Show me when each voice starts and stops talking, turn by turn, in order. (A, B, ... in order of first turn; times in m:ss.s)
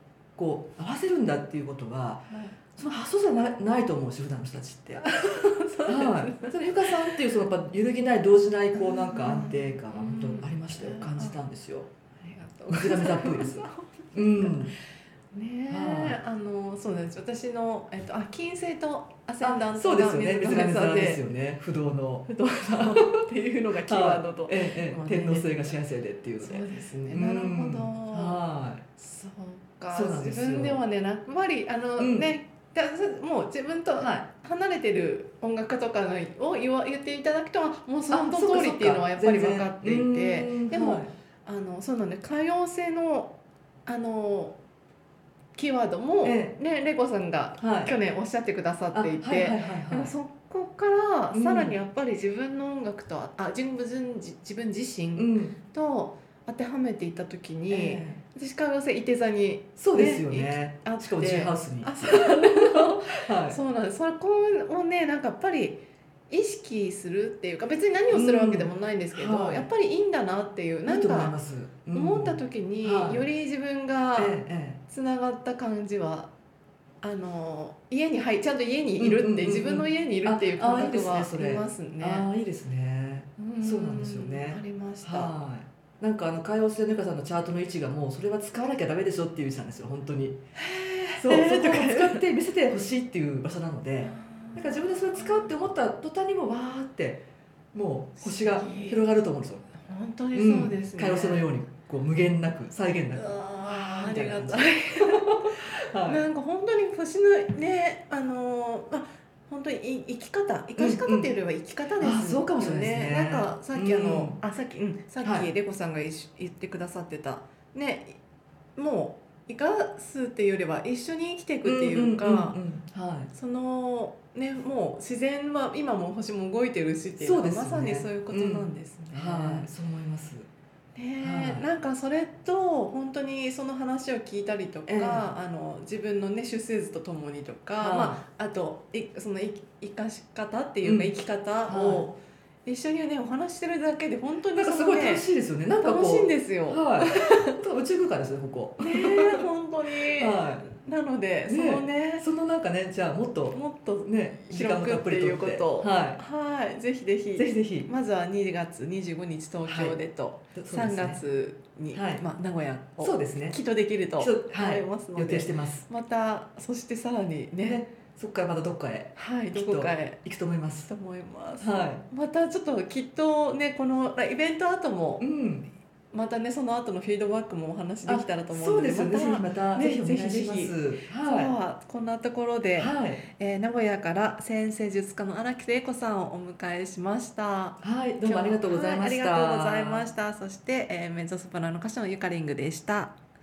0:00.4-0:05.2 A
0:02.3-0:02.6 B
0:05.0-0:07.2 B
0:05.9-0:11.9 A
0:08.8-0:11.4 B
0:12.2-0:14.7 B
0:12.7-0:14.8 A
0:15.3-0:21.2 B
0:15.7-0:16.2 A
0:19.4-0:23.2 A
0:22.3-0:25.7 B
0:23.9-0:28.8 A
0:26.4-0:28.4 B
0:29.0-0:43.3 B
0:29.9-0:30.8 A
0:32.0-0:32.3 A
0:34.0-0:34.3 A
0:38.1-0:41.1 A
0:43.9-0:44.6 B
0:45.6-1:11.4 B
0:46.2-0:46.5 A
0:47.6-0:47.9 A
0:48.9-0:50.1 A
0:51.3-0:51.8 A
0:55.2-0:55.6 A
0:57.7-0:58.2 A
0:59.8-1:03.6 A
1:08.1-1:09.7 A
1:10.9-1:13.3 A
1:11.9-1:16.3 B
1:14.2-1:14.8 A
1:17.0-1:22.3 B
1:19.0-1:30.4 A
1:23.4-1:25.3 B
1:30.6-1:32.3 B
1:31.2-1:39.7 A
1:34.0-1:35.5 B
1:38.2-1:39.0 B
1:39.8-1:41.5 B
1:40.3-1:46.2 A
1:43.2-1:58.2 B
1:50.8-1:51.3 A
1:52.0-1:54.4 A
1:55.2-1:55.5 A
1:58.8-2:02.6 B
2:01.6-2:03.3 A
2:03.3-2:09.7 B
2:07.2-2:10.5 A
2:11.0-2:25.3 B
2:11.2-2:11.7 A
2:14.9-2:15.3 A
2:17.8-2:18.2 A
2:20.8-2:21.1 A
2:21.7-2:22.1 A
2:24.6-2:29.4 A
2:25.8-2:27.6 B
2:28.8-2:32.3 B
2:30.0-2:30.7 A
2:31.5-2:36.2 A
2:33.5-2:47.9 B
2:37.4-2:37.9 A
2:39.6-2:40.0 A
2:40.6-2:41.2 A
2:41.9-2:42.2 A
2:43.0-2:43.6 A
2:44.2-2:45.9 A
2:47.6-2:50.9 A
2:49.2-2:50.2 B
2:50.9-2:55.2 B
2:51.6-2:52.0 A
2:55.2-2:55.7 A
2:56.1-3:13.2 B
2:58.1-3:01.5 A
3:02.8-3:03.2 A
3:07.8-3:10.1 A